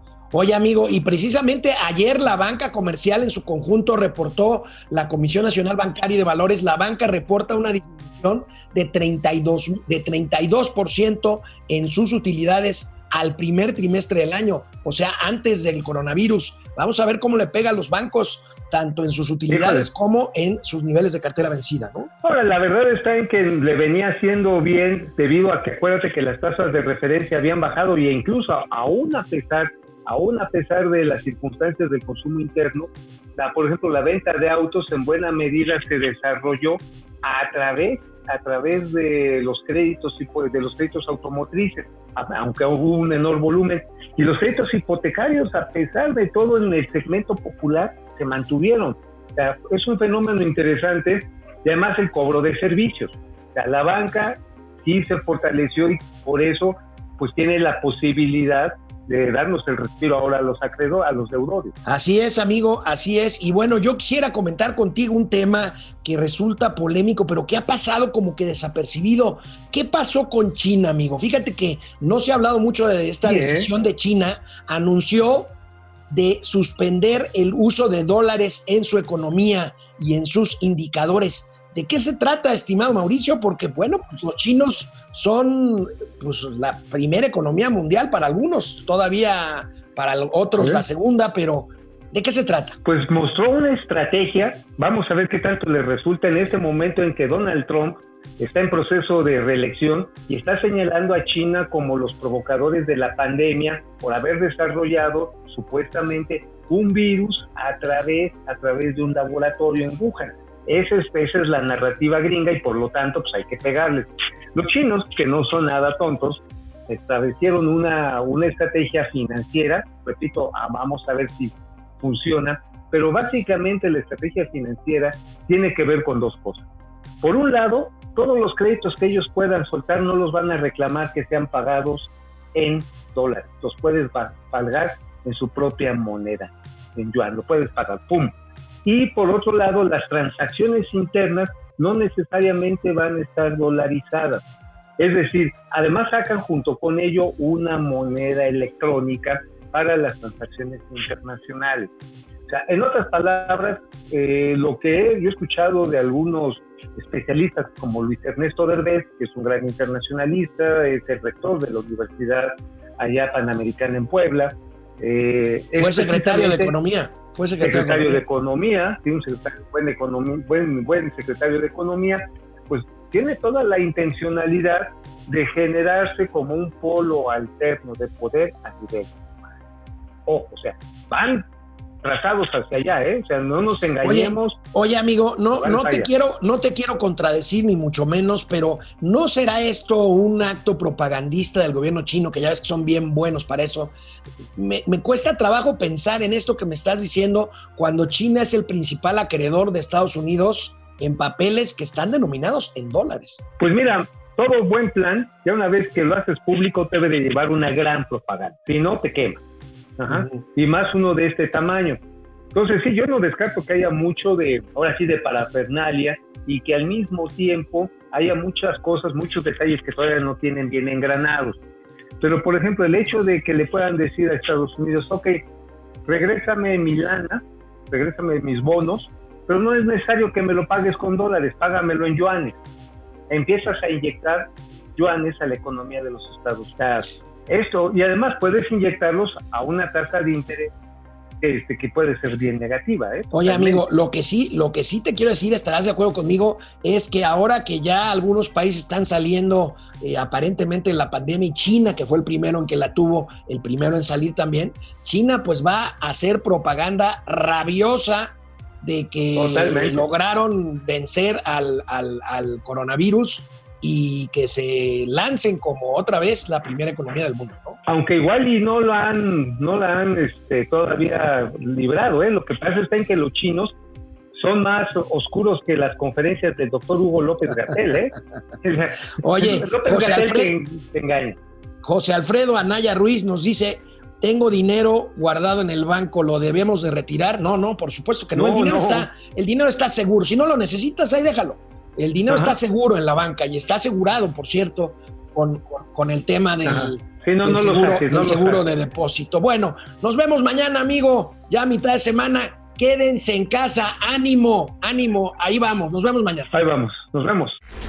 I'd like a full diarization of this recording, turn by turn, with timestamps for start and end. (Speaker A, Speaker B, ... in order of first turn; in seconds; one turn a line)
Speaker A: 0.3-22.1
Speaker B: 19.5-19.9
Speaker B: 22.2-61.7
Speaker A: 61.9-75.5
Speaker B: 73.2-73.7
Speaker A: 76.1-92.8
Speaker B: 90.6-90.8
Speaker B: 92.8-126.7
Speaker B: 127.2-144.4
Speaker B: 145.0-151.9
Speaker B: 152.5-166.7
Speaker A: 165.8-168.2
Speaker B: 167.6-179.2
Speaker B: 180.2-181.4
Speaker B: 182.0-184.6
Speaker A: 184.0-193.9
Speaker B: 185.5-186.1
Speaker A: 194.6-203.4
Speaker B: 203.6-209.4
Speaker B: 210.0-212.0
Speaker A: 210.1-210.4
Speaker B: 212.5-221.6
Speaker B: 222.2-225.4
Speaker B: 226.1-232.6
Speaker B: 233.3-240.7
Speaker B: 241.4-243.8
Speaker A: 243.3-267.8
Speaker B: 259.3-260.1
Speaker B: 267.9-273.7
Speaker B: 274.3-281.4
Speaker A: 279.2-280.5
Speaker A: 281.8-306.5
Speaker B: 288.3-289.1
Speaker B: 292.3-292.6
Speaker B: 296.6-298.6
Speaker B: 306.5-307.6